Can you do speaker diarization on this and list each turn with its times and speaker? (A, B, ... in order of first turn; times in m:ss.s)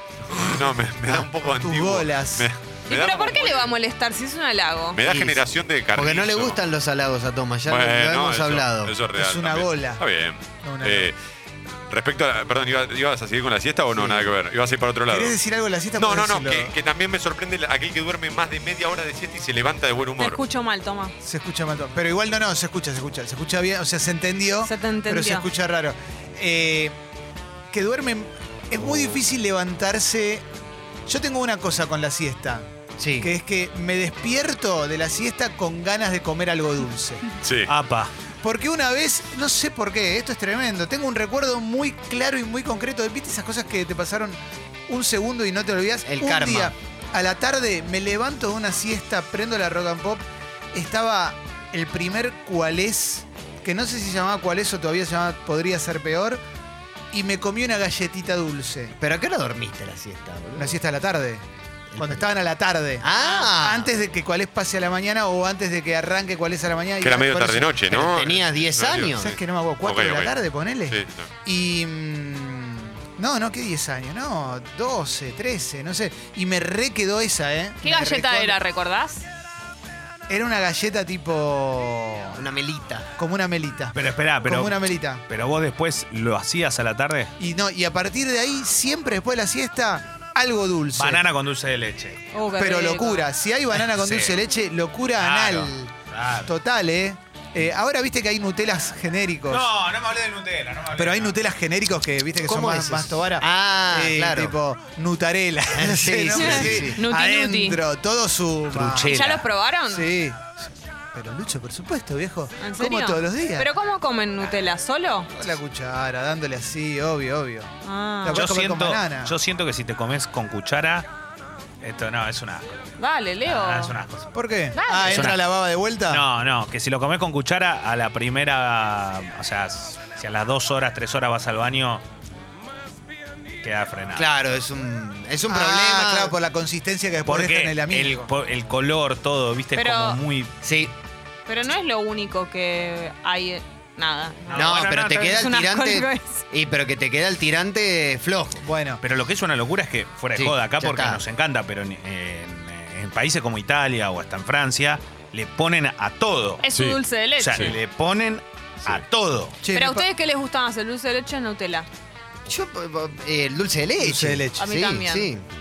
0:00.3-0:03.7 A
0:01.4-0:02.5 B
0:02.9-0:05.0 C
0:04.9-0:06.6 A
0:05.0-0:08.9 D
0:07.7-0:11.1 A
0:09.1-0:10.0 B
0:10.6-0:11.1 B
0:11.9-0:15.4 A
0:13.9-0:14.3 D
0:15.1-0:16.7 B
0:15.9-0:20.4 A
0:20.2-0:21.1 C
0:21.2-0:27.0 B
0:24.6-0:25.4 C
0:27.7-0:30.4 B
0:31.1-0:32.6 B
0:33.0-0:33.3 D
0:33.2-0:37.3 B
0:37.4-0:37.7 A
0:37.7-0:38.1 E
0:38.4-0:56.4 B
0:46.0-0:46.7 D
0:57.1-0:58.9 B
0:59.0-1:00.8 D
1:00.6-1:01.4 B
1:01.9-1:02.3 D
1:02.0-1:08.0 B
1:03.0-1:03.9 D
1:03.1-1:03.4 C
1:07.0-1:09.3 A
1:07.9-1:09.4 D
1:09.2-1:18.6 B
1:09.8-1:10.3 A
1:10.9-1:11.3 A
1:17.8-1:19.2 C
1:20.3-1:22.4 B
1:22.3-1:23.1 D
1:23.2-1:25.2 B
1:23.9-1:27.3 E
1:27.4-1:31.2 B
1:30.9-1:32.2 E
1:32.3-1:33.3 C
1:32.6-1:35.9 B
1:33.7-1:34.4 E
1:35.2-1:36.5 E
1:36.4-1:39.7 B
1:39.5-1:41.4 E
1:41.0-1:49.2 B
1:42.4-1:44.6 D
1:45.7-1:47.0 D
1:46.4-1:47.8 C
1:48.7-1:49.4 E
1:49.1-1:50.1 C
1:49.9-1:53.7 B
1:52.6-1:55.3 C
1:55.3-1:57.7 B
1:57.8-1:58.4 C
1:58.2-1:59.3 B
1:58.3-2:01.1 E
2:01.8-2:04.3 E
2:03.0-2:03.9 C
2:04.3-2:06.2 B
2:04.7-2:05.3 C
2:05.0-2:05.4 E
2:06.1-2:12.0 E
2:13.6-2:14.3 E
2:14.1-2:16.4 D
2:15.5-2:18.3 B
2:17.2-2:20.5 E
2:19.7-2:20.2 C
2:20.6-2:20.9 D
2:21.5-2:26.4 C
2:24.4-2:25.4 E
2:24.5-2:28.6 D
2:28.6-2:29.0 B
2:29.0-2:36.6 E
2:30.4-2:31.2 D
2:36.6-2:37.7 C
2:36.7-2:37.0 A
2:37.4-2:39.6 E
2:39.6-2:40.0 B
2:39.7-2:41.9 C
2:42.5-2:45.5 D
2:44.0-2:44.6 B
2:44.6-2:45.3 C